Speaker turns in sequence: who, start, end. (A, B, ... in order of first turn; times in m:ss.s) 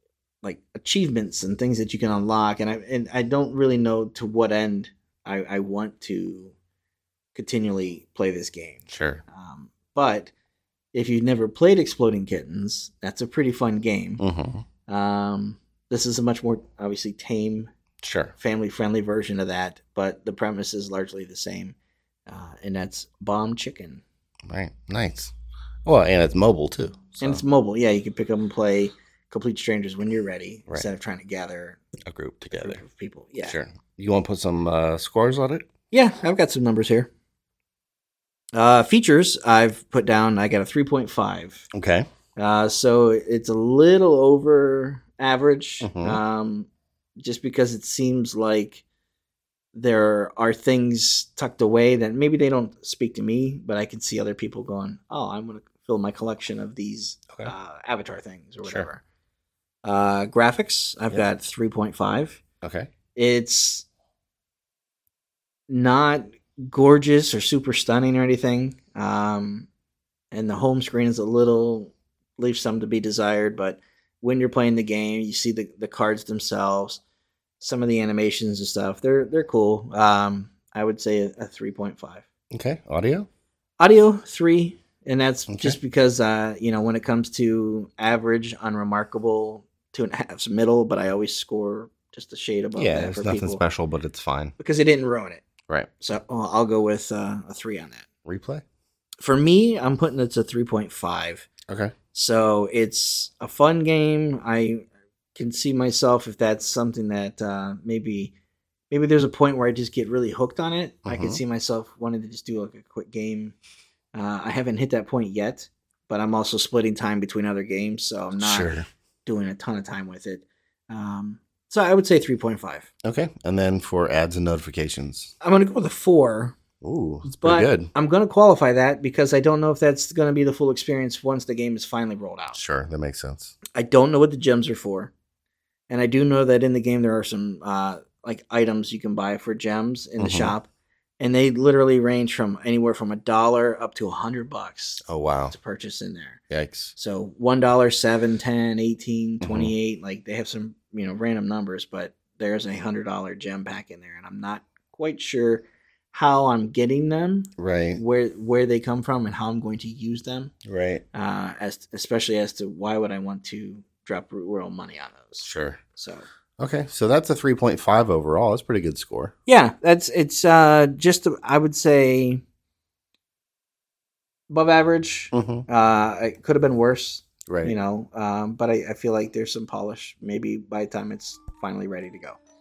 0:00.4-0:06.5 A
0:07.3-0:10.3 A
0:08.9-0:09.2 B
0:10.9-0:14.2 A
0:14.2-0:14.6 B
0:14.9-0:17.7 A
0:18.0-0:18.3 B
0:18.4-0:21.8 A
0:22.3-0:24.0 A
0:24.5-0:25.3 B
0:25.8-0:27.4 B
0:27.2-0:31.8 A
0:32.0-0:32.8 B
0:32.5-0:33.6 A
0:33.4-0:35.6 B
0:35.9-0:37.1 A
0:38.5-0:41.7 A
0:41.7-0:42.0 B
0:42.4-0:48.8 A
0:45.8-0:46.2 B
0:49.7-0:59.0 A
0:58.6-0:58.9 B
0:59.8-1:02.4 A
1:02.6-1:02.9 B
1:03.1-1:03.9 A
1:05.7-1:09.7 A
1:10.3-1:17.0 A
1:17.6-1:22.2 A
1:22.5-1:23.3 B
1:23.8-1:33.6 A
1:25.5-1:25.8 B
1:32.8-1:34.5 B
1:34.6-1:35.5 A
1:36.0-1:38.1 A
1:38.2-1:38.6 B
1:39.2-1:41.5 A
1:41.7-1:41.9 B
1:42.1-1:44.8 A
1:45.3-1:48.3 A
1:48.9-1:53.5 A
1:51.0-1:51.4 B
1:54.1-1:58.7 A
1:58.4-1:58.9 B
1:59.2-2:02.9 A
2:03.0-2:05.3 B
2:05.4-2:06.6 A
2:06.8-2:07.9 B
2:07.2-2:12.6 A
2:12.5-2:13.5 B
2:13.7-2:15.1 A
2:15.9-2:26.4 A
2:20.2-2:20.5 B
2:25.0-2:25.5 B
2:26.5-2:26.9 B
2:26.9-2:40.5 A
2:29.4-2:29.7 B
2:37.6-2:38.0 B
2:40.6-2:41.0 B
2:41.1-2:46.2 A
2:45.4-2:45.8 B
2:46.6-2:49.3 B
2:49.4-2:52.4 A
2:54.5-3:02.4 A
2:55.3-2:55.6 B
2:57.5-2:57.7 B